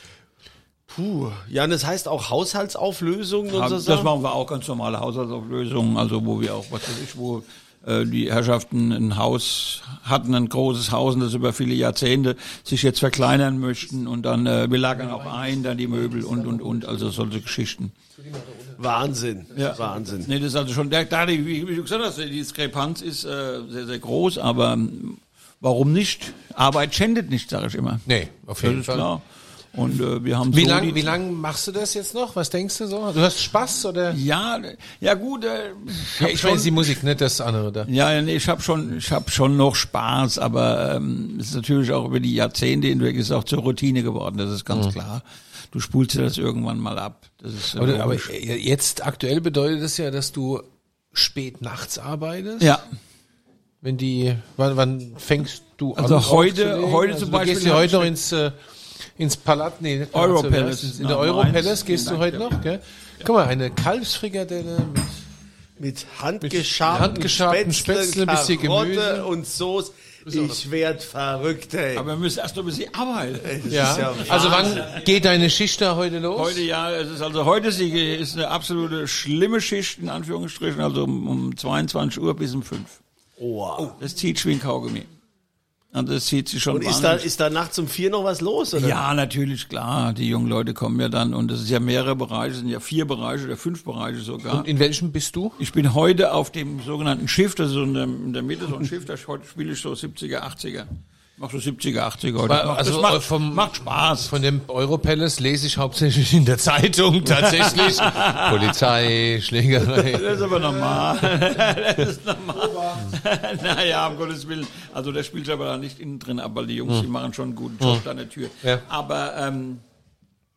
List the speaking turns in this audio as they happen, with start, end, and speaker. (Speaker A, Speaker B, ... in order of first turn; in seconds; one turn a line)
Speaker A: 0.9-4.1
Speaker B: 3.5-17.9
Speaker C: 14.9-17.2
Speaker C: 18.2-18.9
Speaker A: 18.8-20.3
Speaker B: 19.5-28.0
Speaker C: 19.6-19.9
Speaker C: 28.1-29.1
Speaker B: 28.6-31.1
Speaker C: 30.5-34.2
Speaker B: 34.1-37.0
Speaker C: 36.2-37.9
Speaker B: 37.9-48.3
Speaker C: 47.8-52.8
Speaker B: 52.6-52.8
Speaker C: 53.8-58.6
Speaker B: 56.0-58.1
Speaker C: 59.1-65.2
Speaker B: 60.1-62.6
Speaker A: 65.8-72.1
Speaker C: 66.4-69.3
Speaker C: 70.2-70.6
Speaker B: 71.9-75.0
Speaker A: 73.4-74.9
Speaker C: 73.7-76.6
Speaker B: 76.3-83.0
Speaker A: 83.4-83.9
Speaker B: 84.0-85.1
Speaker B: 85.9-87.3
Speaker A: 86.7-89.0
Speaker B: 88.8-94.7
Speaker C: 94.5-95.6
Speaker B: 95.6-104.3
Speaker C: 102.5-110.5
Speaker B: 107.4-108.8
Speaker B: 109.9-119.8